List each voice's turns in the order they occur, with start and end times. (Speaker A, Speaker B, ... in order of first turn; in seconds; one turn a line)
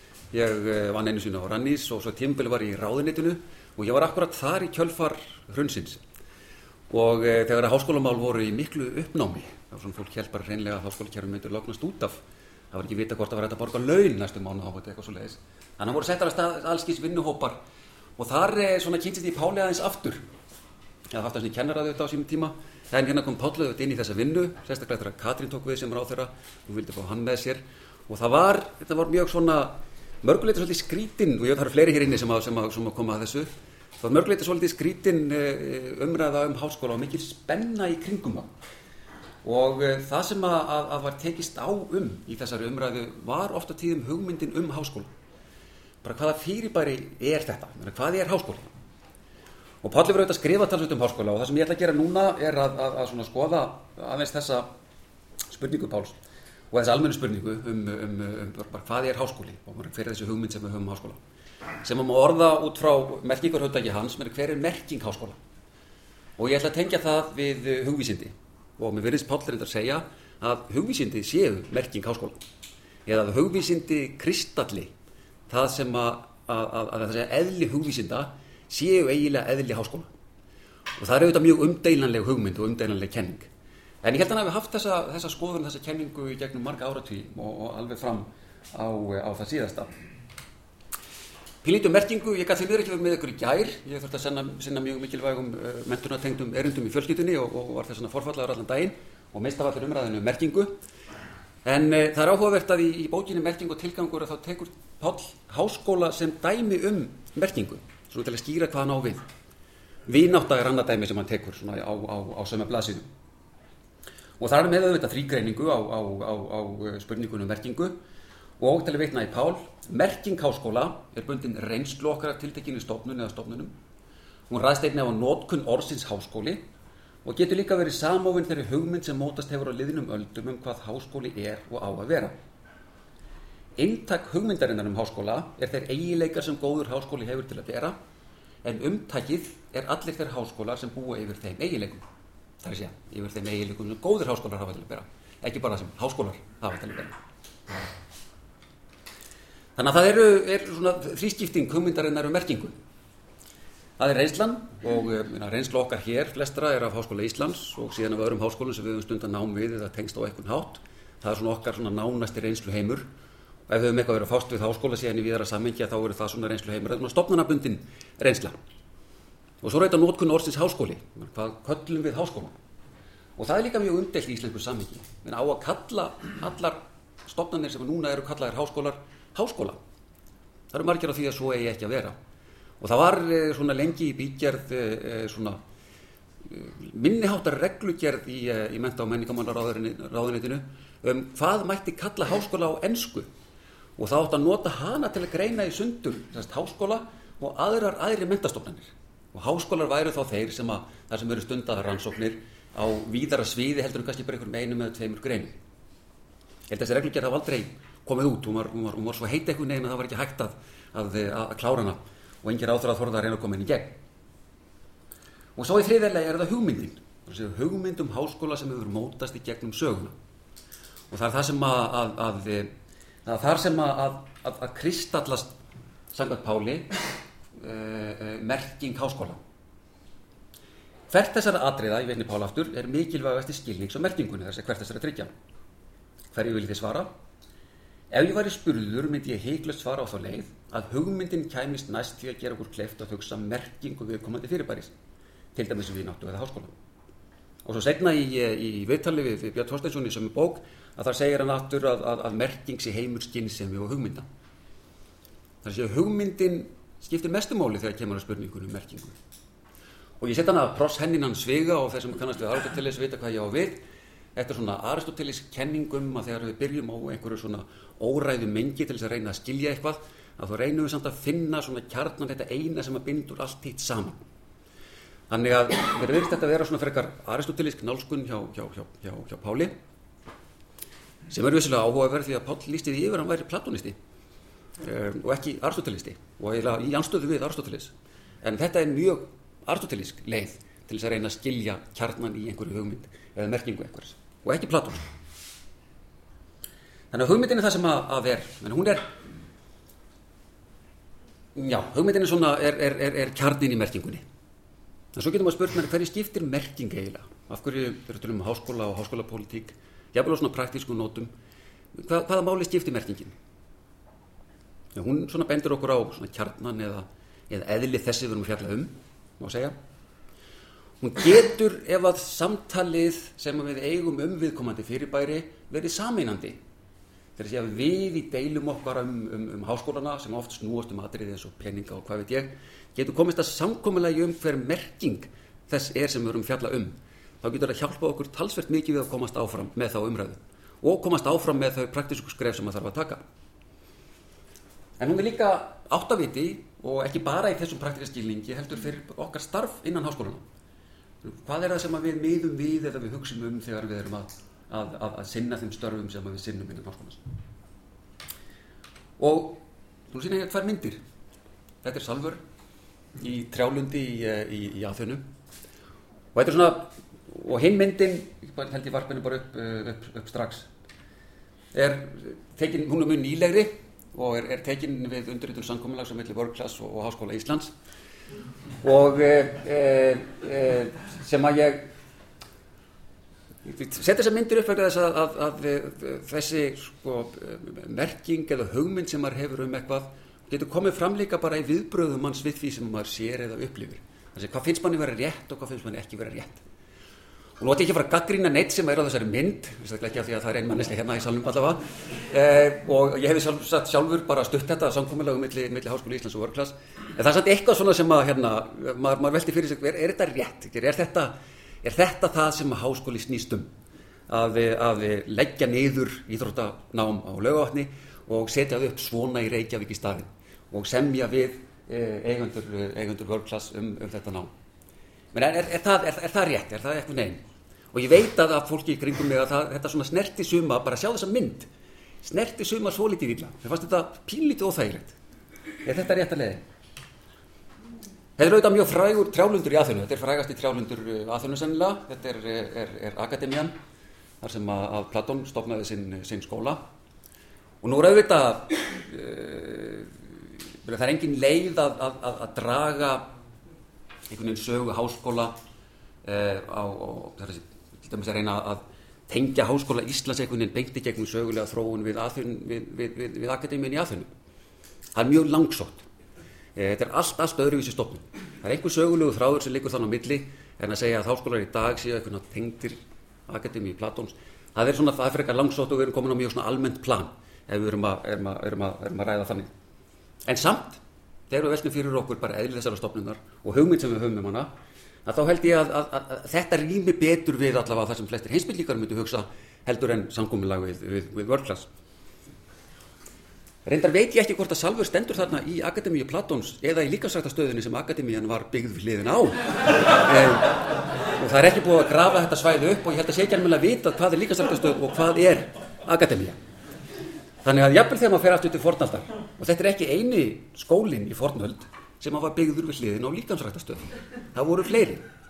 Speaker A: 0.3-6.0
Speaker A: 6.9-12.2
Speaker A: 12.7-17.6
Speaker A: 18.2-20.2
Speaker A: 21.1-33.5
Speaker A: 34.0-38.5
Speaker A: 39.4-45.1
Speaker A: 46.0-48.7
Speaker A: 49.8-54.7
Speaker A: 55.5-56.2
Speaker A: 56.7-61.2
Speaker A: 61.8-65.4
Speaker A: 66.4-72.4
Speaker A: 73.0-74.9
Speaker A: 75.5-80.1
Speaker A: 81.0-83.5
Speaker A: 84.0-89.9
Speaker A: 91.6-100.7
Speaker A: 101.6-109.2
Speaker A: 110.1-113.1
Speaker A: 114.4-117.9
Speaker A: 118.6-123.7
Speaker A: 124.5-126.6
Speaker A: 127.2-132.3
Speaker A: 133.8-137.9
Speaker A: 138.6-142.0
Speaker A: 142.6-147.2
Speaker A: 149.8-152.7
Speaker A: 154.0-163.0
Speaker A: 163.7-168.5
Speaker A: 169.6-172.5
Speaker A: 173.4-179.8
Speaker A: 180.7-182.2
Speaker A: 182.8-185.6
Speaker A: 186.4-193.3
Speaker A: 194.0-205.6
Speaker A: 206.7-214.0
Speaker A: 215.6-220.1
Speaker A: 221.1-222.7
Speaker A: 223.2-225.5
Speaker A: 226.1-226.9
Speaker A: 227.6-229.4
Speaker A: 231.1-235.3
Speaker A: 236.3-237.1
Speaker A: 238.1-244.9
Speaker A: 245.5-246.7
Speaker A: 247.6-254.2
Speaker A: 255.6-259.1
Speaker A: 260.2-263.8
Speaker A: 264.4-274.2
Speaker A: 275.3-279.7
Speaker A: 281.3-283.9
Speaker A: 284.8-295.1
Speaker A: 297.1-299.1
Speaker A: 301.5-304.2
Speaker A: 305.1-311.3
Speaker A: 311.9-313.3
Speaker A: 314.9-319.7
Speaker A: 321.0-326.6
Speaker A: 327.4-343.2
Speaker A: 345.0-350.4
Speaker A: 351.2-357.2
Speaker A: 359.2-361.0
Speaker A: 361.8-362.4
Speaker A: 363.2-365.2
Speaker A: 366.3-370.7
Speaker A: 371.7-377.7
Speaker A: 378.8-381.9
Speaker A: 383.6-396.6
Speaker A: 397.6-413.7
Speaker A: 414.3-424.5
Speaker A: 425.3-427.4
Speaker A: 427.9-431.7
Speaker A: 432.2-435.2
Speaker A: 435.8-436.6
Speaker A: 438.4-443.7
Speaker A: 444.4-446.8
Speaker A: 447.8-450.1
Speaker A: 450.8-453.2
Speaker A: 454.3-455.6
Speaker A: 456.2-464.3
Speaker A: 465.1-466.0
Speaker A: 466.8-479.7
Speaker A: 480.5-484.7
Speaker A: 485.2-491.9
Speaker A: 493.8-506.6
Speaker A: 507.6-515.2